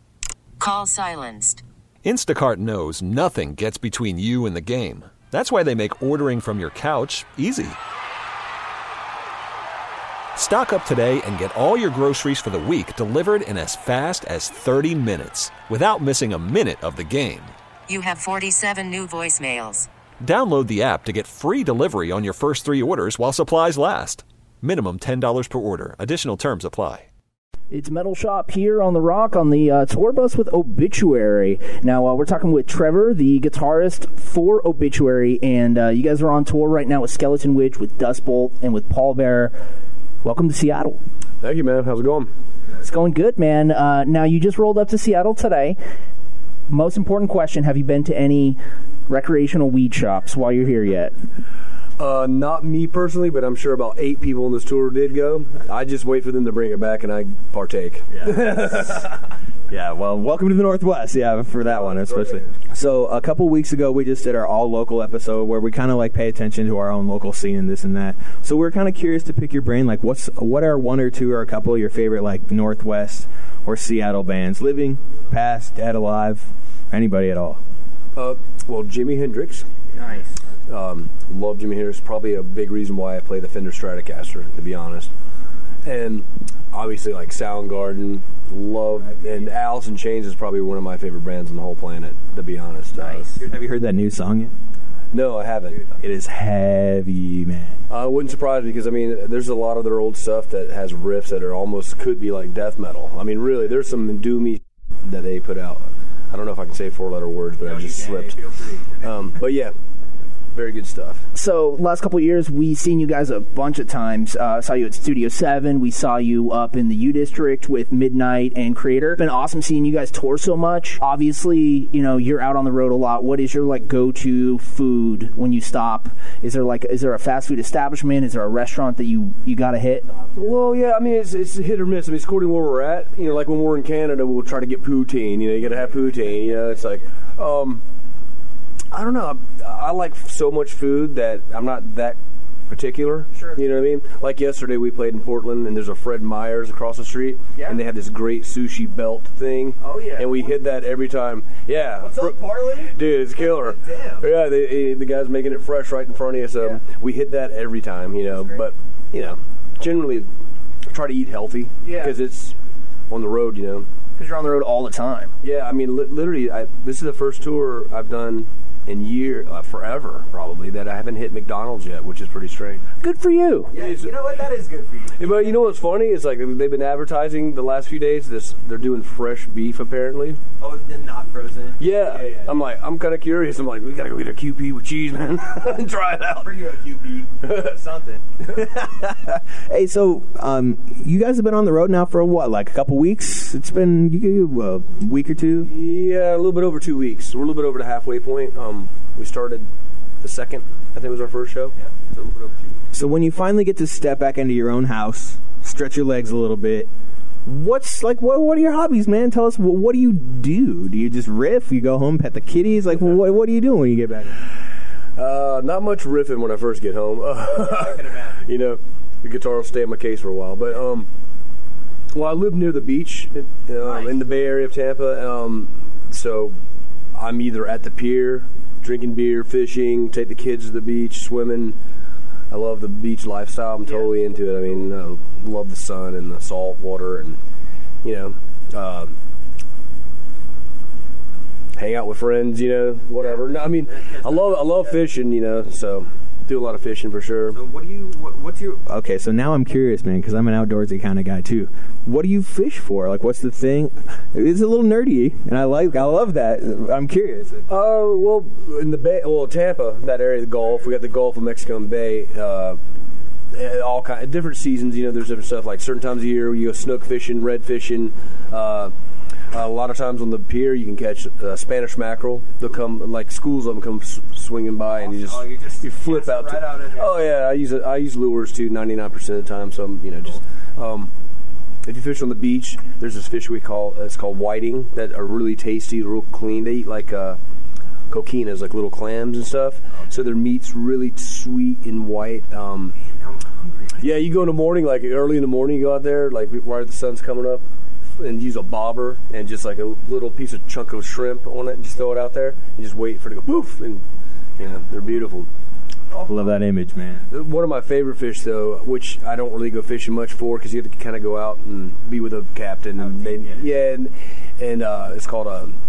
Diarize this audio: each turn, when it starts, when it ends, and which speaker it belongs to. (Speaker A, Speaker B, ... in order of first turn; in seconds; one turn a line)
Speaker A: 0.6-1.6
Speaker B: 2.0-7.7
Speaker B: 10.4-17.5
Speaker A: 17.9-19.9
Speaker B: 20.2-27.0
Speaker C: 27.7-39.6
Speaker C: 40.2-41.0
Speaker D: 41.4-42.3
Speaker C: 42.8-45.8
Speaker C: 46.7-51.1
Speaker D: 52.0-59.1
Speaker E: 58.2-59.0
Speaker E: 59.7-77.6
Speaker D: 61.6-62.5
Speaker D: 78.2-79.7
Speaker D: 80.7-85.1
Speaker D: 85.8-93.3
Speaker C: 93.0-93.3
Speaker E: 93.4-94.5
Speaker D: 95.1-95.8
Speaker E: 96.0-97.8
Speaker D: 97.9-108.4
Speaker E: 107.6-109.1
Speaker D: 109.0-109.7
Speaker D: 110.5-111.2
Speaker C: 111.3-130.1
Speaker D: 130.3-137.8
Speaker D: 138.9-142.2
Speaker D: 142.7-160.3
Speaker E: 143.3-143.6
Speaker E: 149.8-150.4
Speaker E: 152.0-152.9
Speaker E: 153.5-154.3
Speaker D: 160.9-162.6
Speaker D: 163.1-163.9
Speaker C: 164.2-165.3
Speaker D: 165.4-172.8
Speaker C: 173.0-173.7
Speaker D: 173.7-174.2
Speaker E: 173.7-175.6
Speaker D: 175.2-180.4
Speaker E: 180.6-182.5
Speaker D: 181.8-186.6
Speaker E: 186.4-195.7
Speaker D: 187.4-187.7
Speaker D: 195.7-199.7
Speaker D: 200.2-202.8
Speaker E: 202.9-206.9
Speaker E: 207.5-214.4
Speaker D: 215.2-221.1
Speaker E: 217.6-218.4
Speaker D: 222.1-226.6
Speaker E: 223.8-224.2
Speaker D: 227.2-231.8
Speaker D: 232.5-237.4
Speaker D: 238.0-239.2
Speaker D: 241.8-247.6
Speaker E: 243.9-245.0
Speaker E: 247.5-257.7
Speaker D: 257.7-262.8
Speaker D: 263.5-268.9
Speaker D: 269.5-281.1
Speaker E: 275.0-277.2
Speaker D: 281.9-287.4
Speaker D: 288.1-292.9
Speaker E: 293.1-294.0
Speaker D: 294.0-297.6
Speaker D: 298.2-304.1
Speaker D: 304.6-305.5
Speaker D: 306.1-306.6
Speaker E: 306.3-307.3
Speaker D: 307.3-315.8
Speaker E: 313.0-313.6